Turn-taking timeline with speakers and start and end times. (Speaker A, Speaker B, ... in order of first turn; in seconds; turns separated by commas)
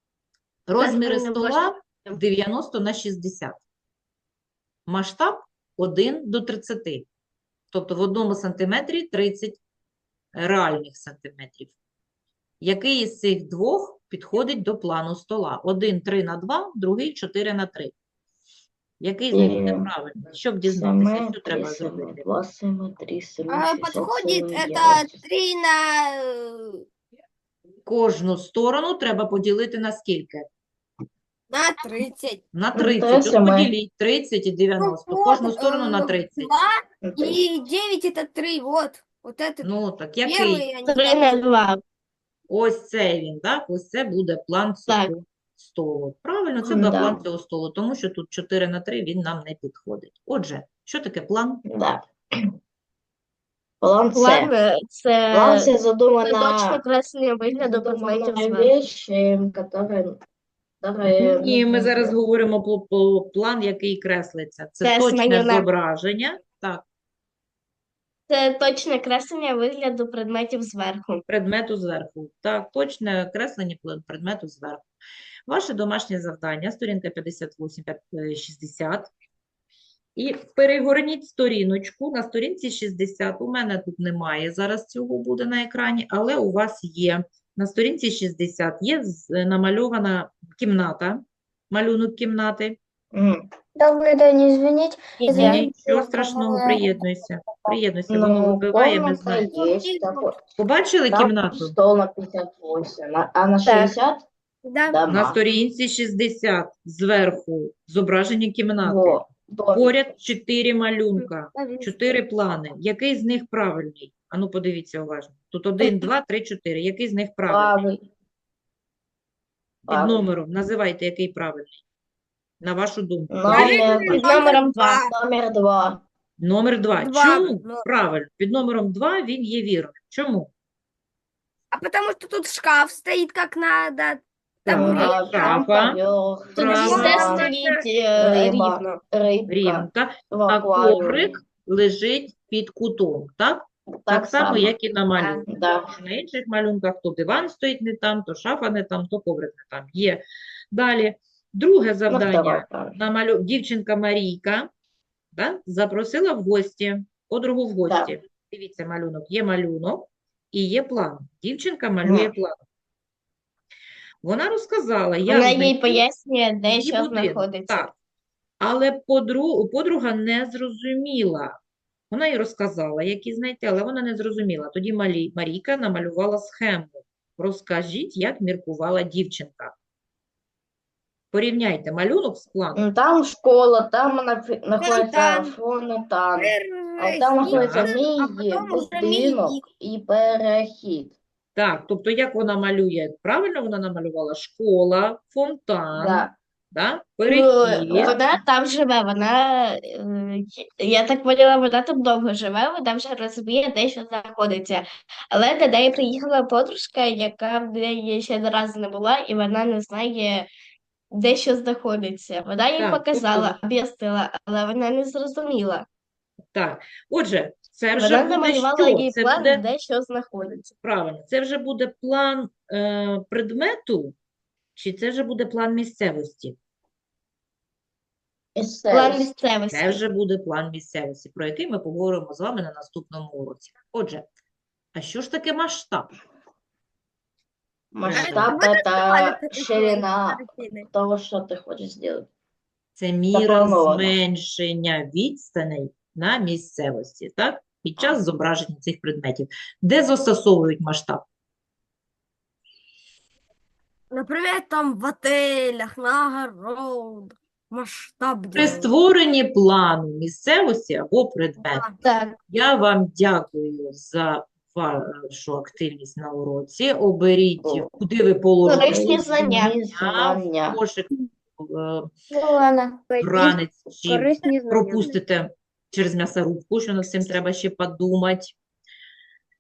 Speaker A: 0.7-3.6, Speaker B: 0.8-1.6, Speaker A: 4.9-7.1, Speaker A: 7.7-9.6, Speaker A: 10.3-11.7, Speaker A: 12.6-17.9, Speaker A: 19.0-22.3, Speaker C: 19.3-19.9, Speaker C: 20.6-25.2, Speaker B: 23.5-26.9, Speaker A: 27.9-30.4, Speaker B: 31.5-32.4, Speaker A: 32.5-36.5, Speaker C: 32.7-33.7, Speaker B: 34.8-39.7, Speaker C: 37.0-37.4, Speaker A: 39.6-40.6, Speaker B: 40.2-41.4, Speaker D: 40.9-41.8, Speaker A: 42.5-51.6, Speaker C: 46.6-47.2, Speaker C: 51.6-52.5, Speaker C: 53.8-54.5, Speaker D: 54.1-55.7, Speaker C: 55.3-56.8, Speaker D: 56.2-58.7, Speaker C: 57.5-60.2, Speaker C: 60.8-62.1, Speaker A: 61.1-66.8, Speaker D: 64.8-65.6, Speaker D: 68.3-71.2, Speaker A: 71.3-74.8, Speaker A: 75.5-79.1, Speaker A: 80.2-92.8, Speaker C: 93.1-93.5, Speaker E: 93.8-97.8, Speaker D: 95.2-95.7, Speaker A: 95.3-99.4, Speaker C: 98.1-100.4, Speaker B: 99.4-100.4, Speaker A: 100.6-101.7, Speaker C: 101.1-104.2, Speaker D: 103.6-103.9, Speaker B: 104.6-105.0, Speaker C: 104.9-105.4, Speaker A: 105.1-109.2, Speaker C: 108.8-109.9, Speaker A: 109.7-117.7, Speaker B: 111.5-112.2, Speaker C: 117.5-118.0, Speaker C: 119.9-120.2, Speaker A: 119.9-121.8, Speaker A: 122.6-124.0, Speaker C: 123.3-124.2, Speaker B: 123.5-125.1, Speaker D: 124.1-125.0, Speaker C: 125.0-126.0, Speaker A: 126.4-130.5, Speaker B: 127.0-127.8, Speaker B: 131.7-135.2, Speaker A: 134.7-136.0, Speaker C: 134.7-137.5, Speaker D: 134.9-135.4, Speaker A: 136.6-137.5, Speaker D: 136.6-139.0, Speaker B: 136.7-137.8, Speaker C: 138.2-141.4, Speaker A: 139.5-154.7, Speaker C: 143.9-144.7, Speaker C: 145.4-145.9, Speaker C: 152.1-152.9, Speaker A: 155.3-162.5, Speaker C: 162.0-162.3, Speaker A: 164.2-166.0, Speaker D: 165.3-167.9, Speaker A: 166.7-167.9, Speaker A: 168.6-171.6, Speaker A: 172.1-179.7, Speaker A: 181.3-182.8, Speaker C: 182.7-191.1, Speaker B: 184.8-185.5, Speaker B: 186.4-189.6, Speaker A: 187.5-187.9, Speaker A: 191.6-198.2, Speaker C: 195.9-196.3, Speaker D: 197.3-210.5, Speaker C: 197.9-198.4, Speaker D: 211.1-215.8, Speaker A: 212.8-213.6, Speaker A: 216.5-219.6, Speaker D: 217.9-220.6, Speaker A: 220.5-224.1, Speaker A: 224.8-226.6, Speaker C: 228.6-229.3, Speaker D: 228.9-230.0, Speaker A: 229.7-234.2, Speaker A: 234.9-236.1, Speaker C: 237.9-242.3, Speaker A: 238.0-238.6, Speaker B: 238.1-240.9, Speaker A: 243.0-251.2, Speaker C: 243.3-244.2, Speaker B: 254.1-258.9, Speaker A: 258.5-261.9, Speaker B: 261.6-261.9, Speaker D: 262.0-262.4, Speaker A: 262.5-272.1, Speaker C: 267.6-267.9, Speaker D: 268.6-269.7, Speaker C: 268.7-270.8, Speaker E: 272.3-273.1, Speaker B: 273.1-275.1, Speaker A: 273.2-278.5